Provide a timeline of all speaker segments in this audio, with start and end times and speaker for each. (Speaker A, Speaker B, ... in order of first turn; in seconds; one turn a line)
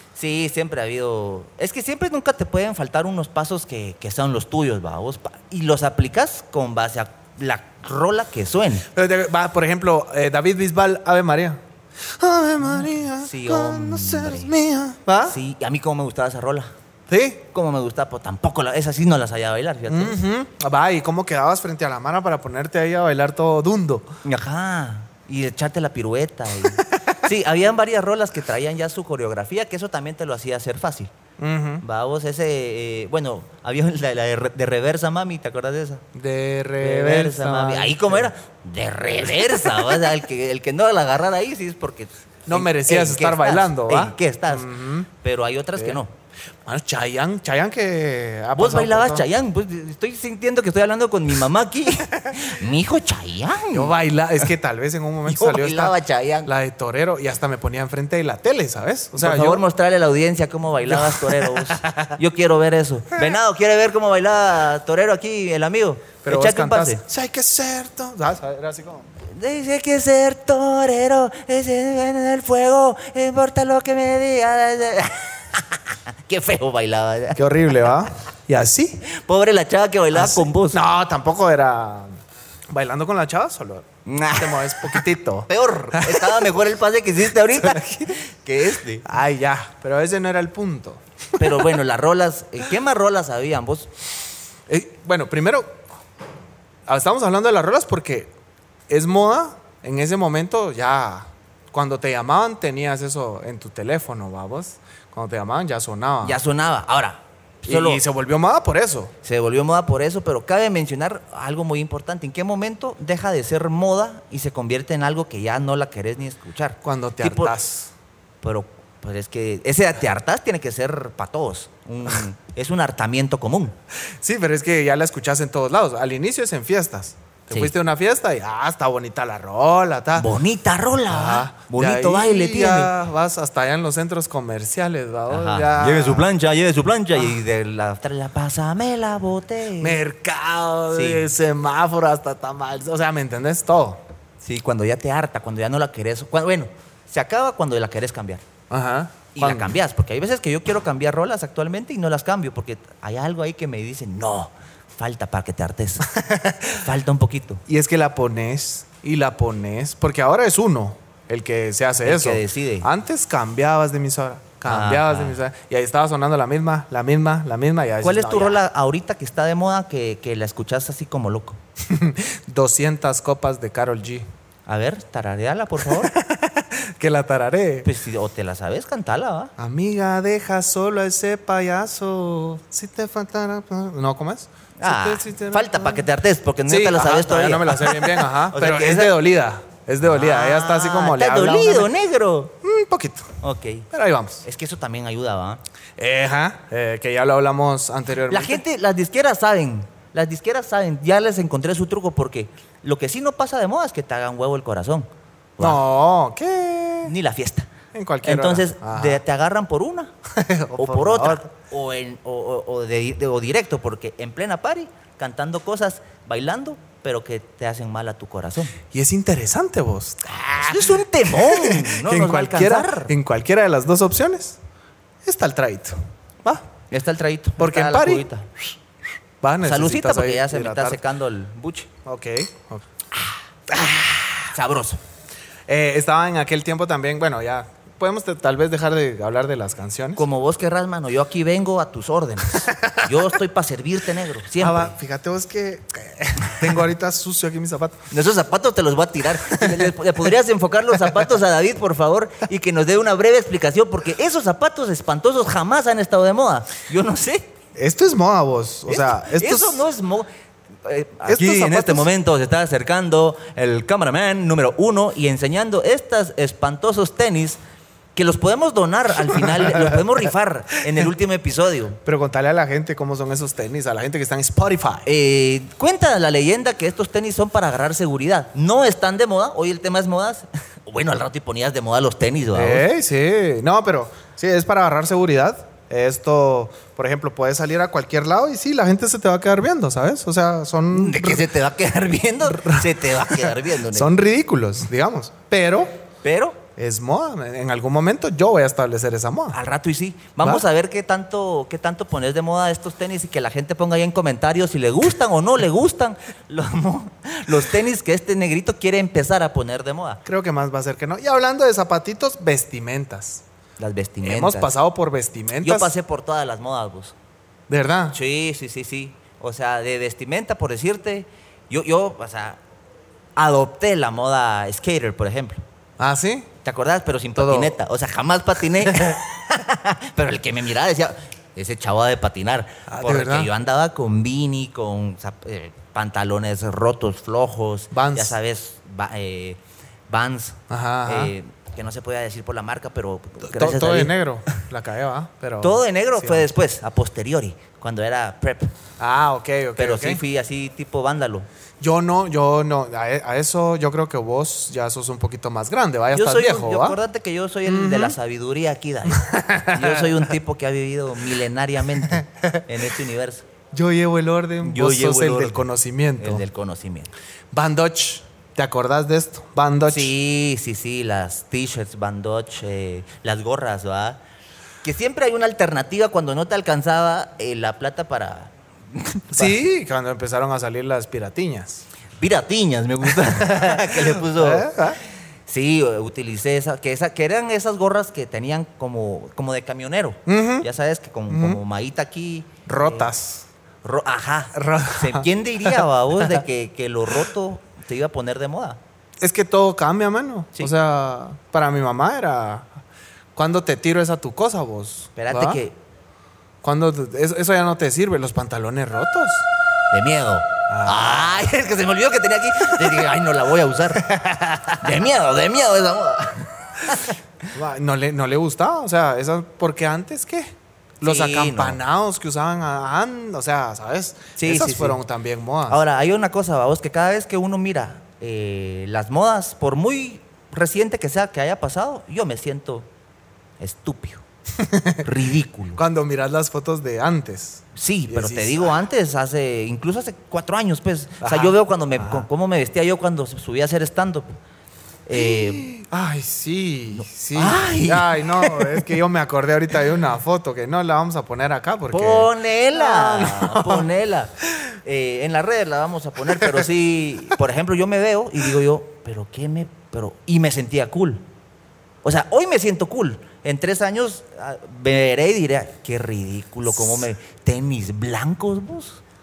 Speaker A: 0.1-8.9
Speaker B: 8.9-15.4
Speaker A: 13.2-14.5
Speaker A: 15.2-16.7
Speaker B: 17.1-17.4
Speaker A: 17.5-20.2
Speaker B: 19.9-24.1
Speaker A: 24.2-31.1
Speaker B: 26.8-27.1
Speaker B: 31.4-31.8
Speaker A: 31.8-36.0
Speaker B: 36.1-38.3
Speaker A: 36.8-46.1
Speaker B: 39.2-40.0
Speaker B: 42.5-45.1
Speaker B: 46.6-49.2
Speaker A: 48.5-53.9
Speaker B: 53.7-59.6
Speaker A: 55.2-56.5
Speaker A: 59.1-67.0
Speaker B: 60.9-62.2
Speaker B: 66.2-69.1
Speaker A: 69.2-77.4
Speaker B: 77.3-79.0
Speaker A: 79.0-80.8
Speaker B: 80.1-82.2
Speaker B: 82.7-86.5
Speaker A: 84.0-89.0
Speaker B: 87.6-88.2
Speaker B: 89.0-91.8
Speaker A: 91.4-93.9
Speaker B: 94.7-95.8
Speaker B: 96.9-98.3
Speaker B: 98.9-106.4
Speaker A: 106.2-108.0
Speaker B: 107.6-109.1
Speaker A: 109.2-117.5
Speaker B: 116.8-117.9
Speaker A: 118.4-123.7
Speaker B: 124.2-130.3
Speaker A: 130.1-132.9
Speaker B: 131.1-136.3
Speaker A: 135.3-140.0
Speaker B: 139.8-144.0
Speaker A: 140.9-141.3
Speaker A: 144.4-148.4
Speaker B: 148.7-149.7
Speaker A: 149.3-156.1
Speaker B: 156.2-156.7
Speaker A: 156.7-157.6
Speaker B: 157.7-168.6
Speaker A: 162.0-162.9
Speaker A: 164.6-165.4
Speaker A: 168.0-171.6
Speaker B: 171.8-174.3
Speaker A: 174.7-176.1
Speaker B: 175.8-177.9
Speaker A: 177.8-179.5
Speaker B: 179.6-186.1
Speaker A: 184.8-189.2
Speaker B: 186.7-191.9
Speaker A: 190.0-192.5
Speaker B: 192.6-193.3
Speaker A: 193.4-193.9
Speaker B: 193.9-194.4
Speaker A: 194.4-195.6
Speaker B: 196.0-198.6
Speaker A: 198.3-205.8
Speaker B: 205.6-207.1
Speaker A: 207.0-207.7
Speaker B: 207.9-209.2
Speaker A: 208.2-210.1
Speaker B: 210.3-211.5
Speaker A: 210.7-218.7
Speaker B: 218.9-224.6
Speaker A: 220.5-223.1
Speaker B: 225.2-226.7
Speaker A: 226.9-228.5
Speaker B: 227.6-228.7
Speaker B: 229.4-231.0
Speaker A: 229.6-231.9
Speaker B: 232.0-232.8
Speaker A: 233.2-235.0
Speaker B: 233.7-234.4
Speaker B: 235.7-240.2
Speaker A: 240.2-244.9
Speaker B: 242.7-243.2
Speaker B: 244.6-248.0
Speaker A: 248.1-257.5
Speaker B: 249.5-249.9
Speaker B: 257.7-259.9
Speaker A: 258.9-260.3
Speaker A: 260.8-267.6
Speaker B: 261.3-262.1
Speaker A: 268.1-272.0
Speaker B: 269.3-270.0
Speaker B: 272.0-275.1
Speaker A: 275.1-282.9
Speaker B: 282.5-291.5
Speaker A: 290.9-294.1
Speaker B: 292.4-295.9
Speaker A: 296.2-296.6
Speaker B: 296.8-299.6
Speaker A: 299.5-310.2
Speaker B: 310.2-313.4
Speaker A: 313.8-314.7
Speaker B: 314.2-315.9
Speaker A: 315.6-317.1
Speaker B: 317.7-318.1
Speaker A: 318.1-322.6
Speaker A: 323.4-325.6
Speaker B: 326.0-326.5
Speaker A: 326.6-344.6
Speaker B: 327.3-327.8
Speaker B: 328.9-329.2
Speaker B: 332.9-333.5
Speaker B: 337.9-338.4
Speaker B: 340.7-341.3
Speaker B: 343.4-346.5
Speaker A: 345.6-348.7
Speaker B: 349.0-350.2
Speaker A: 349.8-351.5
Speaker B: 351.8-357.0
Speaker A: 356.1-363.5
Speaker B: 357.6-358.1
Speaker B: 359.1-360.3
Speaker B: 363.7-366.4
Speaker A: 364.6-365.7
Speaker A: 366.2-367.1
Speaker B: 367.5-370.1
Speaker A: 369.9-374.2
Speaker A: 374.8-379.6
Speaker B: 379.3-381.8
Speaker A: 382.2-384.8
Speaker B: 383.2-385.0
Speaker A: 385.5-393.1
Speaker B: 390.3-390.7
Speaker B: 391.3-391.6
Speaker B: 392.6-393.4
Speaker A: 393.8-398.8
Speaker B: 394.5-396.4
Speaker B: 399.2-402.7
Speaker B: 403.3-405.6
Speaker A: 405.1-405.8
Speaker B: 406.6-409.5
Speaker A: 409.9-417.2
Speaker B: 410.7-411.5
Speaker B: 414.1-414.5
Speaker B: 417.5-425.8
Speaker A: 421.0-421.8
Speaker A: 424.4-425.0
Speaker A: 425.7-432.9
Speaker A: 433.6-434.2
Speaker B: 434.6-435.1
Speaker A: 435.0-435.8
Speaker B: 435.8-438.8
Speaker A: 437.7-444.3
Speaker B: 441.2-442.3
Speaker A: 445.1-445.7
Speaker B: 445.1-453.9
Speaker A: 446.9-448.8
Speaker A: 451.9-454.3
Speaker A: 454.8-461.2
Speaker A: 462.0-469.0